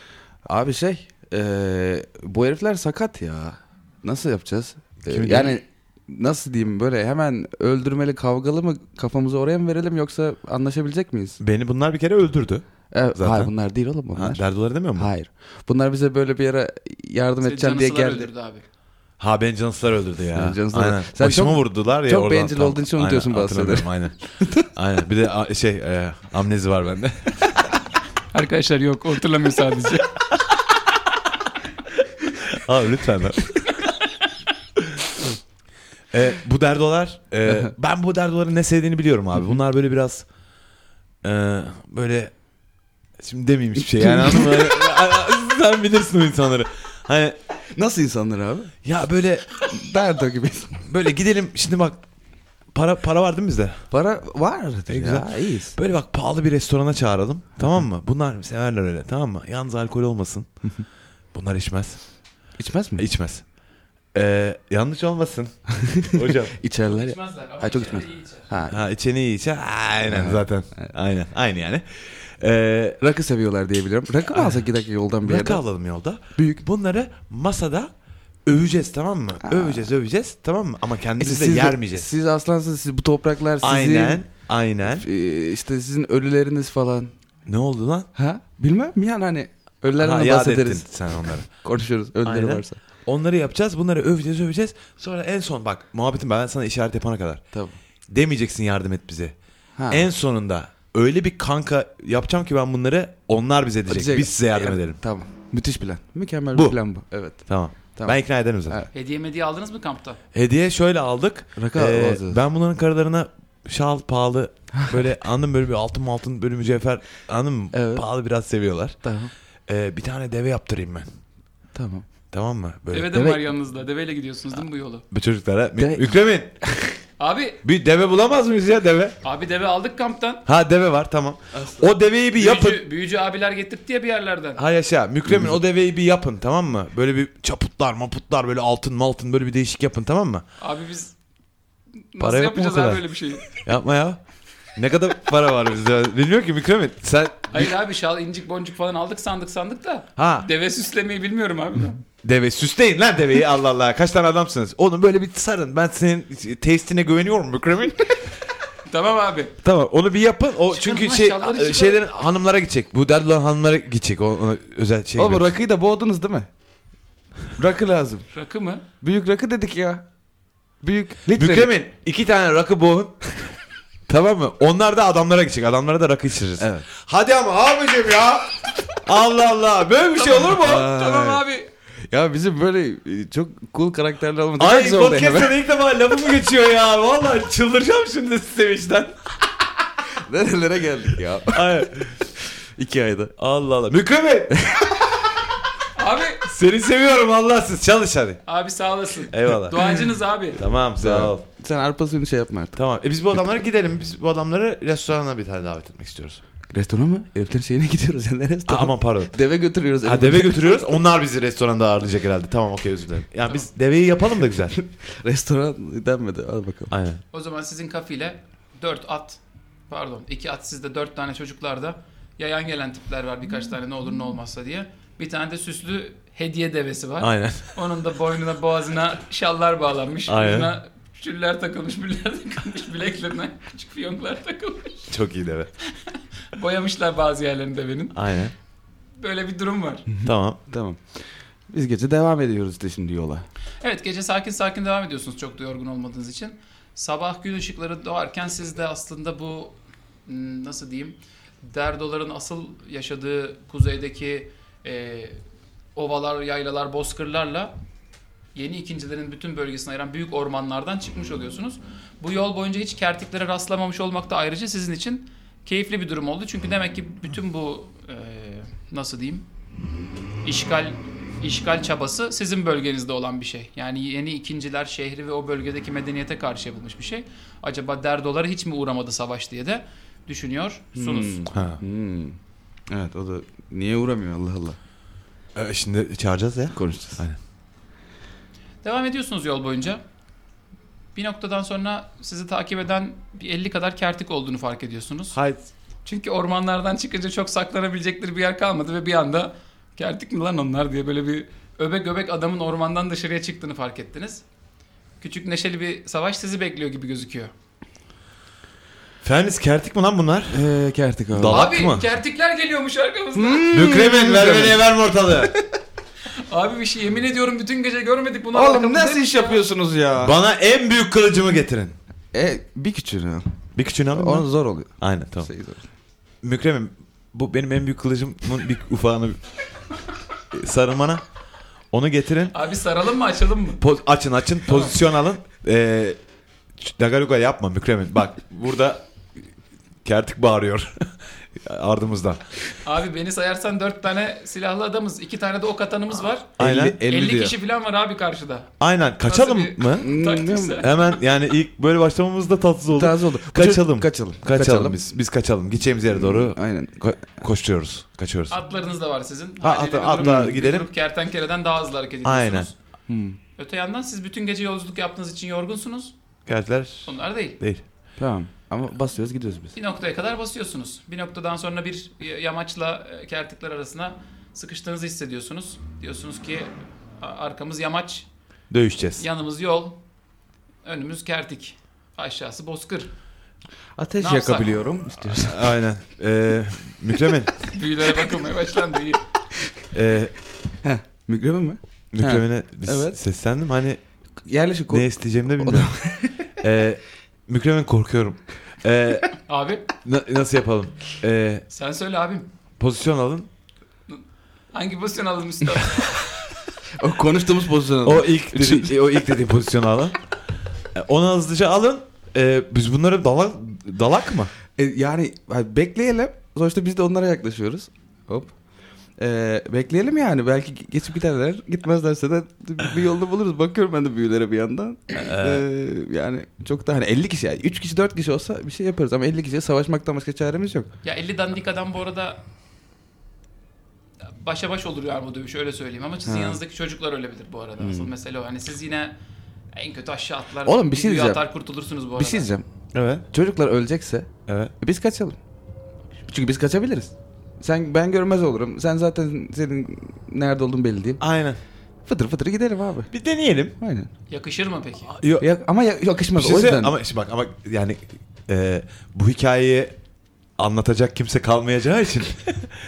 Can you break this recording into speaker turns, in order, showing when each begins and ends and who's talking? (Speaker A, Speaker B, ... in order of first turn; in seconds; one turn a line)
Speaker A: 0.4-11.4
Speaker B: 5.0-5.6
Speaker B: 11.4-13.5
Speaker A: 12.9-14.4
Speaker B: 14.1-15.1
Speaker A: 14.9-18.3
Speaker C: 17.4-18.6
Speaker B: 19.2-24.1
Speaker A: 20.3-23.9
Speaker B: 24.7-27.5
Speaker C: 28.3-30.1
Speaker B: 32.5-33.6
Speaker B: 36.1-40.2
Speaker B: 41.2-42.3
Speaker B: 43.2-47.4
Speaker A: 44.0-44.8
Speaker A: 47.7-48.7
Speaker B: 48.8-49.5
Speaker A: 49.7-50.9
Speaker B: 50.9-52.0
Speaker B: 52.7-53.8
Speaker A: 53.9-55.8
Speaker B: 54.9-60.5
Speaker B: 61.3-62.0
Speaker A: 62.6-63.0
Speaker B: 63.0-63.4
Speaker B: 64.1-65.5
Speaker A: 65.8-68.8
Speaker B: 66.1-66.5
Speaker C: 66.8-68.5
Speaker B: 68.7-73.0
Speaker A: 70.1-70.9
Speaker A: 73.0-75.6
Speaker B: 74.3-74.7
Speaker B: 75.2-77.9
Speaker A: 76.4-76.6
Speaker B: 78.5-82.1
Speaker A: 79.4-79.9
Speaker A: 81.2-84.2
Speaker B: 83.6-85.0
Speaker A: 84.9-87.1
Speaker B: 87.5-88.1
Speaker A: 88.1-90.9
Speaker B: 90.0-91.5
Speaker A: 91.5-92.8
Speaker B: 92.2-97.4
Speaker B: 98.1-99.3
Speaker A: 99.8-100.0
Speaker B: 99.9-105.0
Speaker A: 103.9-108.2
Speaker B: 107.5-108.8
Speaker C: 108.9-110.2
Speaker B: 110.3-119.0
Speaker A: 111.6-112.4
Speaker A: 117.7-118.0
Speaker A: 119.0-119.3
Speaker B: 119.7-121.1
Speaker A: 121.7-122.1
Speaker B: 122.3-123.2
Speaker C: 122.9-125.0
Speaker A: 123.1-123.4
Speaker B: 125.1-126.5
Speaker A: 125.8-126.1
Speaker A: 126.6-126.9
Speaker C: 127.2-127.6
Speaker B: 127.6-129.1
Speaker C: 129.2-130.4
Speaker B: 130.4-132.8
Speaker A: 131.5-131.8
Speaker C: 132.3-134.6
Speaker B: 134.6-140.4
Speaker A: 135.3-135.6
Speaker C: 140.6-141.1
Speaker C: 142.1-143.5
Speaker B: 142.2-144.2
Speaker B: 144.8-147.7
Speaker C: 147.5-152.0
Speaker B: 150.2-150.5
Speaker B: 152.2-158.3
Speaker C: 158.9-159.5
Speaker B: 159.6-165.5
Speaker C: 160.7-162.0
Speaker A: 165.2-166.5
Speaker A: 167.6-168.3
Speaker C: 168.3-168.8
Speaker A: 169.0-170.1
Speaker A: 170.8-171.7
Speaker B: 171.3-173.2
Speaker B: 174.1-180.9
Speaker A: 176.6-176.9
Speaker C: 180.2-181.7
Speaker A: 180.5-181.4
Speaker A: 182.1-185.5
Speaker B: 184.6-189.1
Speaker A: 190.1-191.9
Speaker B: 191.5-192.1
Speaker A: 192.8-193.3
Speaker B: 193.4-194.7
Speaker A: 194.6-194.9
Speaker C: 195.9-196.5
Speaker B: 196.4-198.4
Speaker C: 198.5-200.6
Speaker B: 199.3-199.9
Speaker B: 200.5-201.4
Speaker A: 201.0-202.8
Speaker B: 202.8-206.4
Speaker A: 206.7-210.8
Speaker B: 208.7-209.3
Speaker B: 210.0-214.8
Speaker A: 214.7-216.9
Speaker B: 216.9-217.2
Speaker C: 217.3-235.1
Speaker B: 227.2-227.7
Speaker B: 230.3-230.7
Speaker B: 235.1-235.7
Speaker C: 236.5-238.2
Speaker B: 238.1-238.5
Speaker C: 239.2-240.1
Speaker A: 240.1-243.4
Speaker B: 240.2-240.6
Speaker C: 243.8-255.4
Speaker C: 255.9-257.7
Speaker C: 258.5-269.4
Speaker C: 270.4-281.5
Speaker A: 280.9-282.4
Speaker B: 281.5-281.8
Speaker A: 282.9-284.8
Speaker B: 285.5-287.4
Speaker A: 286.7-287.2
Speaker C: 288.8-290.0
Speaker C: 291.1-295.4
Speaker B: 295.3-295.6
Speaker C: 296.0-304.4
Speaker C: 305.2-307.5
Speaker B: 309.2-310.6
Speaker A: 310.5-311.6
Speaker B: 311.3-312.1
Speaker C: 311.5-313.8
Speaker A: 313.3-314.8
Speaker B: 313.7-315.6
Speaker C: 316.5-319.6
Speaker A: 318.5-320.3
Speaker B: 320.2-321.9
Speaker A: 322.3-323.5
Speaker B: 323.7-325.5
Speaker A: 324.1-325.9
Speaker B: 326.4-329.4
Speaker B: 330.5-331.2
Speaker B: 331.9-332.5
Speaker C: 332.5-333.8
Speaker B: 333.8-336.2
Speaker B: 336.8-339.0
Speaker B: 340.0-342.4
Speaker C: 342.8-346.5
Speaker B: 346.6-347.0
Speaker A: 346.6-347.5
Speaker C: 347.1-348.7
Speaker B: 348.8-350.1
Speaker C: 349.2-351.0
Speaker A: 350.0-350.9
Speaker B: 350.8-358.6
Speaker A: 352.9-355.0
Speaker A: 356.1-357.1
Speaker C: 358.5-362.7
Speaker B: 359.6-360.9
Speaker A: 360.2-360.5
Speaker B: 362.2-362.7
Speaker A: 363.1-363.4
Speaker C: 363.6-366.1
Speaker B: 366.5-367.8
Speaker C: 367.1-367.6
Speaker A: 368.2-369.7
Speaker C: 369.7-378.3
Speaker B: 378.7-379.2
Speaker C: 379.2-380.0
Speaker C: 380.8-383.1
Speaker A: 383.9-385.7
Speaker C: 384.2-384.8
Speaker B: 385.4-387.5
Speaker C: 387.7-389.2
Speaker B: 389.9-390.3
Speaker A: 390.8-393.2
Speaker B: 392.1-394.0
Speaker A: 394.4-396.4
Speaker B: 394.9-395.9
Speaker B: 396.6-399.3
Speaker C: 399.5-399.9
Speaker B: 400.0-401.6
Speaker C: 401.7-402.5
Speaker B: 402.8-403.5
Speaker C: 404.7-406.3
Speaker A: 407.0-408.9
Speaker B: 408.0-410.2
Speaker B: 410.9-414.5
Speaker A: 414.8-418.5
Speaker A: 419.2-430.9
Speaker B: 425.2-425.6
Speaker C: 431.0-432.4
Speaker C: 434.3-439.1
Speaker A: 436.2-436.6
Speaker A: 437.8-438.1
Speaker C: 439.7-442.5
Speaker A: 440.6-441.4
Speaker A: 442.1-442.6
Speaker B: 442.9-443.2
Speaker A: 443.3-445.4
Speaker B: 444.5-444.7
Speaker A: 446.3-451.2
Speaker B: 451.2-451.6
Speaker A: 452.1-453.1
Speaker B: 453.1-453.7
Speaker A: 453.8-454.1
Speaker C: 454.3-455.1
Speaker B: 455.1-455.5
Speaker A: 455.4-456.9
Speaker B: 456.4-460.0
Speaker B: 460.6-462.7